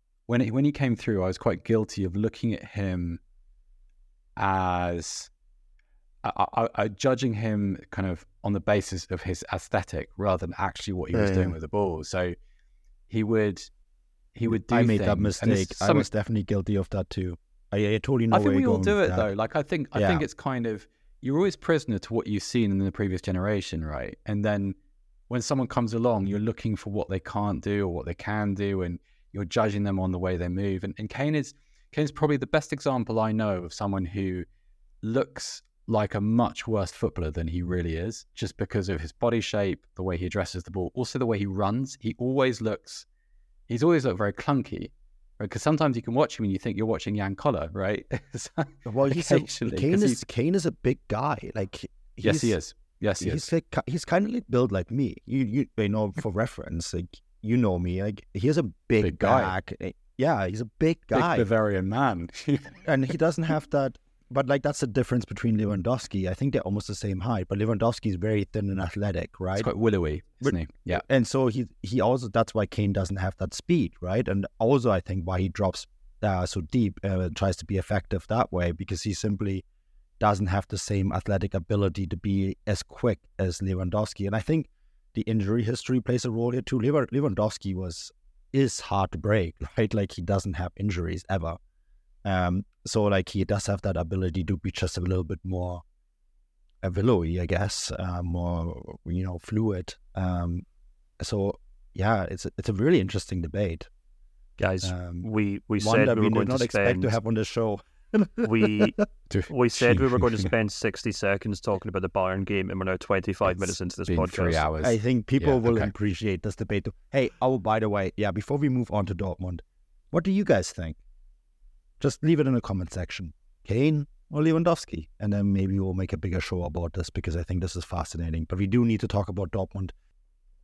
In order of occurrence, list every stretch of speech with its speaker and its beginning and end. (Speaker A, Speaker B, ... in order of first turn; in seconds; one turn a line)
Speaker A: 0.3-3.2
Speaker A: 4.4-5.3
Speaker A: 6.2-12.4
Speaker B: 11.1-11.6
Speaker A: 13.1-13.7
Speaker A: 14.3-16.1
Speaker B: 14.5-19.3
Speaker A: 18.3-24.8
Speaker B: 19.9-20.2
Speaker A: 25.3-34.5
Speaker A: 35.0-43.0
Speaker A: 43.7-50.2
Speaker B: 48.9-52.5
Speaker A: 52.2-53.5
Speaker B: 53.2-61.5
Speaker A: 59.0-59.5
Speaker A: 61.1-62.9
Speaker B: 62.8-69.7
Speaker A: 69.6-71.0
Speaker B: 70.4-79.6
Speaker B: 80.2-91.6
Speaker B: 92.2-95.8
Speaker B: 96.8-100.7
Speaker B: 101.2-103.9
Speaker C: 104.6-107.2
Speaker B: 104.8-105.3
Speaker B: 105.8-109.0
Speaker C: 108.4-109.0
Speaker A: 109.3-110.5
Speaker C: 109.5-114.6
Speaker A: 113.4-115.9
Speaker B: 114.8-121.0
Speaker B: 122.0-129.9